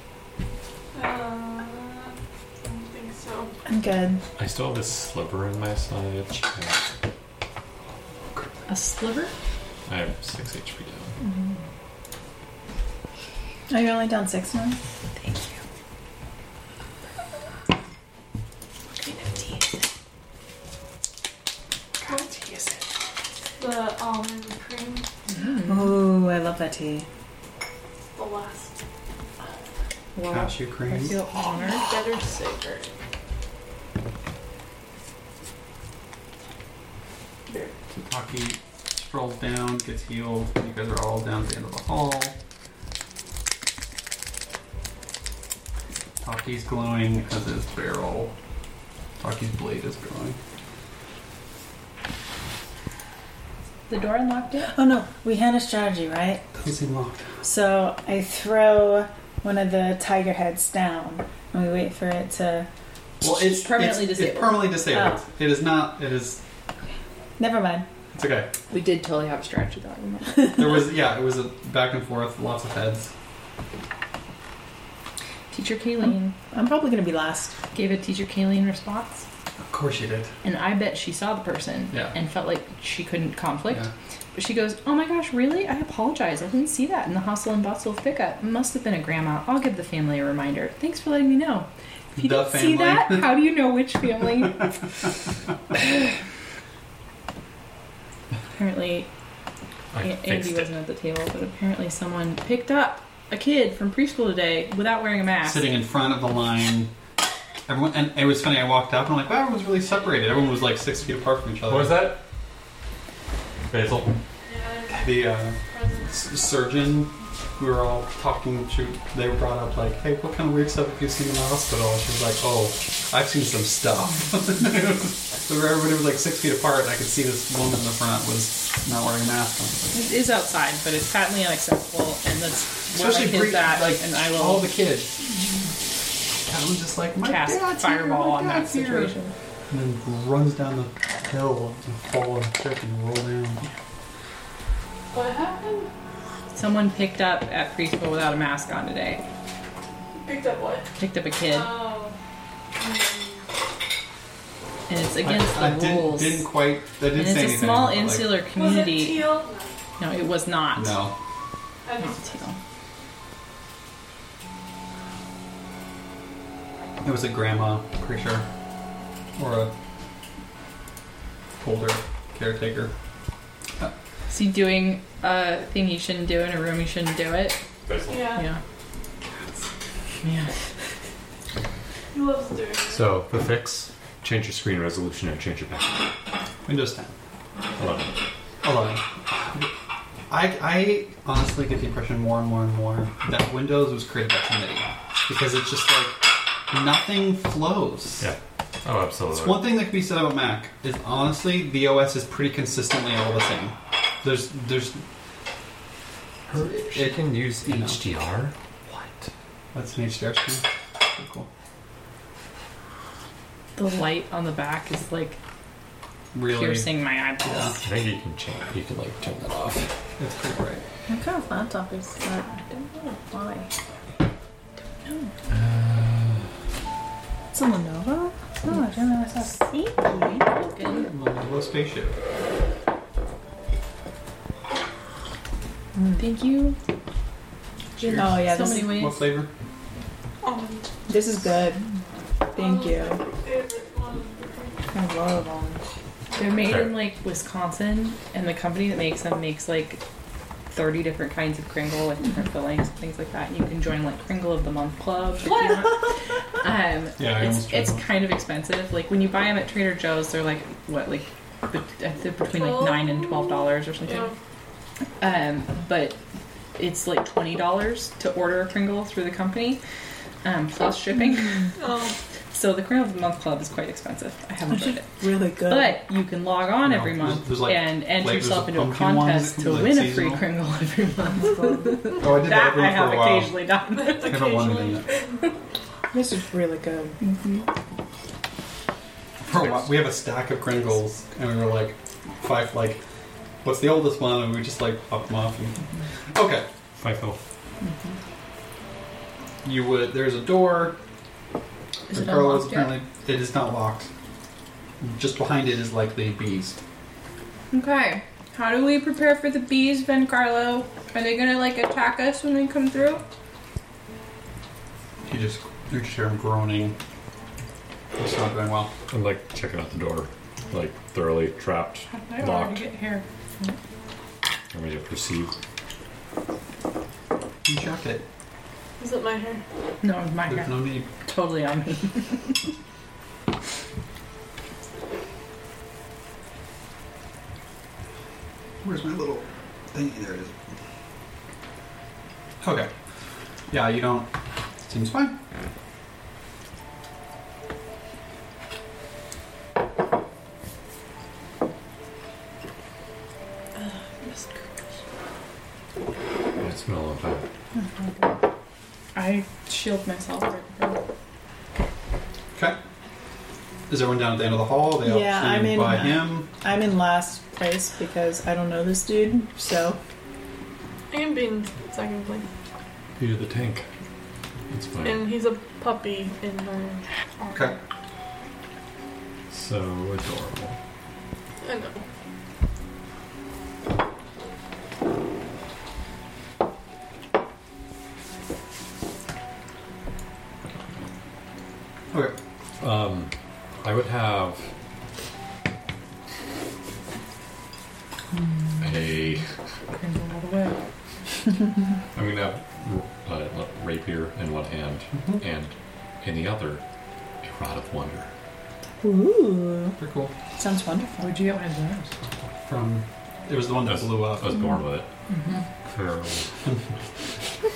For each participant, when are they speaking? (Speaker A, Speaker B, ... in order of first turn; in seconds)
Speaker A: 0.9-3.5, 23.6-25.1, 28.1-28.8, 31.6-32.9, 37.5-37.7, 110.1-110.6, 114.5-116.3, 145.1-145.9, 150.2-150.9, 151.4-152.2, 152.8-153.4, 158.5-159.8, 161.8-162.4, 178.1-178.5, 182.1-183.1, 240.4-241.1, 242.5-244.8, 262.5-264.3, 271.8-272.1, 283.9-285.3, 329.0-329.6, 371.1-372.4, 375.0-377.0, 381.6-382.0
Speaker B: 3.6-4.2, 13.7-14.8, 25.6-27.1, 54.6-56.4, 57.4-62.7, 64.9-65.2, 67.4-67.9, 76.5-77.5, 221.1-223.7, 227.5-230.5, 235.9-236.2, 238.1-239.1, 241.1-241.8, 242.5-243.2, 244.9-245.8, 274.7-276.0, 281.4-282.1, 286.1-287.2, 358.0-358.2, 365.0-370.0, 409.0-410.0, 410.6-411.3
Speaker C: 4.4-6.9, 9.9-11.1, 99.9-100.7, 111.7-112.2, 113.7-114.2, 177.8-178.4, 182.9-186.1, 187.8-188.1, 198.2-199.8, 206.5-209.0, 217.8-219.9, 225.5-226.5, 246.6-247.0, 297.0-297.4, 319.1-322.8, 324.7-325.5, 356.6-357.4, 373.2-373.9, 374.7-375.3, 379.5-380.8, 392.8-394.7, 398.8-399.4, 402.1-406.8, 407.4-408.3, 413.9-415.1, 415.9-416.5
Speaker D: 8.7-9.3, 15.2-15.6, 19.0-19.8, 25.3-26.0, 30.1-31.9, 53.9-54.7, 63.2-64.8, 68.7-70.7, 75.5-76.3, 77.7-79.2, 80.4-94.8, 98.5-99.1, 100.0-105.7, 129.9-134.7, 137.2-139.3, 146.5-149.2, 151.0-151.8, 154.9-156.5, 157.1-159.4, 160.0-161.0, 162.0-162.6, 174.3-177.6, 178.3-178.6, 180.2-180.5, 213.8-215.4, 216.4-217.8, 230.2-231.1, 236.2-236.8, 238.0-239.3, 246.3-250.0, 250.7-264.3, 265.2-266.2, 266.8-269.8, 270.4-271.7, 272.5-275.1, 275.6-284.4, 287.2-287.6, 302.1-303.0, 307.7-313.2, 322.1-323.7, 330.0-332.6, 353.8-354.7, 359.1-361.0, 399.9-400.8, 411.2-412.1, 415.3-415.6
Speaker E: 30.2-31.1, 37.9-42.4, 46.2-48.3, 49.2-50.4, 56.6-57.3, 63.2-66.4, 68.1-68.5, 70.5-73.1, 79.6-80.3, 92.1-93.4, 105.4-106.9, 107.7-112.1, 114.9-130.0, 132.9-135.4, 136.4-139.2, 139.7-143.7, 155.2-158.4, 160.7-161.2, 167.0-168.4, 169.3-169.7, 171.6-172.9, 186.7-187.1, 188.6-189.7, 190.3-198.3, 199.3-205.0, 206.6-208.0, 209.7-211.5, 216.3-217.8, 220.2-220.8, 230.9-232.2, 238.1-239.5, 257.2-258.0, 276.8-280.4, 282.2-283.6, 284.2-285.1, 289.4-293.0, 293.6-296.7, 299.6-301.0, 302.1-304.1, 305.0-306.8, 315.3-317.0, 318.2-318.9, 327.6-328.2, 330.4-331.1, 338.8-340.5, 342.6-342.9, 343.7-344.3, 344.8-345.4, 363.9-366.5, 377.5-377.8, 405.1-405.4, 410.0-410.3, 412.6-414.5